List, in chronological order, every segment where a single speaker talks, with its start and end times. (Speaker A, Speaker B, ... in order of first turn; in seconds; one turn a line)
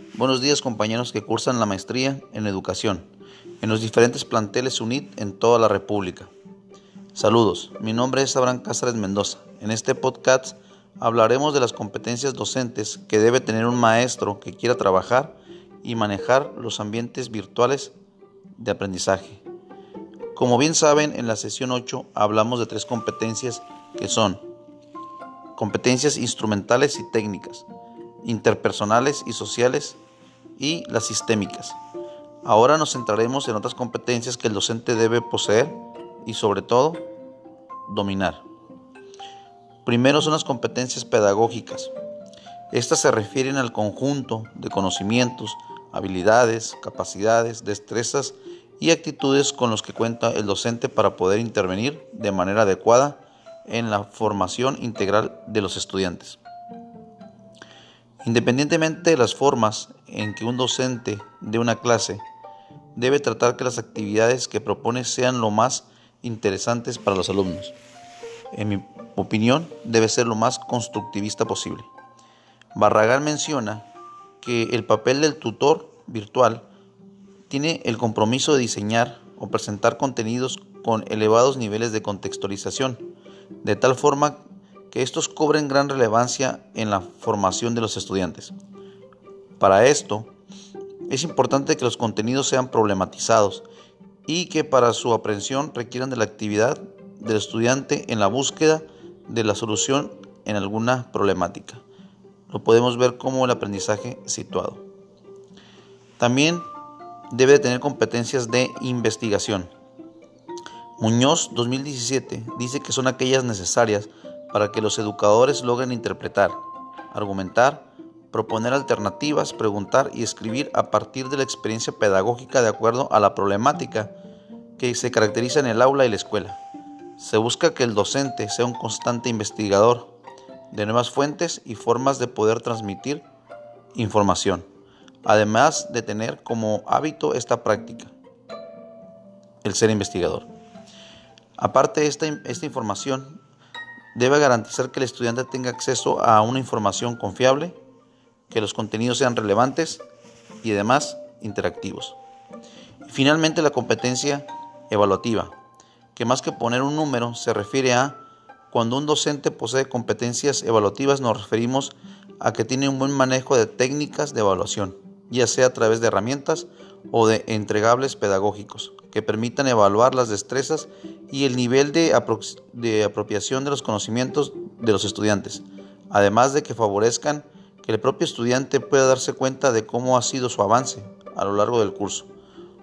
Speaker A: 0.1-3.0
Speaker A: 3.6-6.3
Speaker A: 7.2-17.9
Speaker A: 18.6-19.4
Speaker A: 20.4-24.4
Speaker A: 25.6-27.7
Speaker A: 28.2-30.0
Speaker A: 30.6-31.8
Speaker A: 32.4-37.0
Speaker A: 37.9-38.4
Speaker A: 39.9-41.9
Speaker A: 42.7-56.4
Speaker A: 58.2-62.2
Speaker A: 63.0-67.8
Speaker A: 68.5-71.9
Speaker A: 72.8-73.9
Speaker A: 74.4-76.7
Speaker A: 77.5-83.0
Speaker A: 83.6-84.4
Speaker A: 84.9-88.5
Speaker A: 89.6-90.3
Speaker A: 91.1-93.7
Speaker A: 94.3-101.8
Speaker A: 102.5-104.8
Speaker A: 106.2-106.7
Speaker A: 107.3-109.7
Speaker A: 111.0-116.6
Speaker A: 117.1-124.1
Speaker A: 124.8-126.6
Speaker A: 127.2-130.1
Speaker A: 130.7-133.2
Speaker A: 133.9-134.7
Speaker A: 135.2-138.1
Speaker A: 139.6-140.5
Speaker A: 141.6-143.4
Speaker A: 144.2-147.8
Speaker A: 148.5-150.0
Speaker A: 150.6-152.2
Speaker A: 153.1-155.5
Speaker A: 156.2-158.2
Speaker A: 158.7-182.3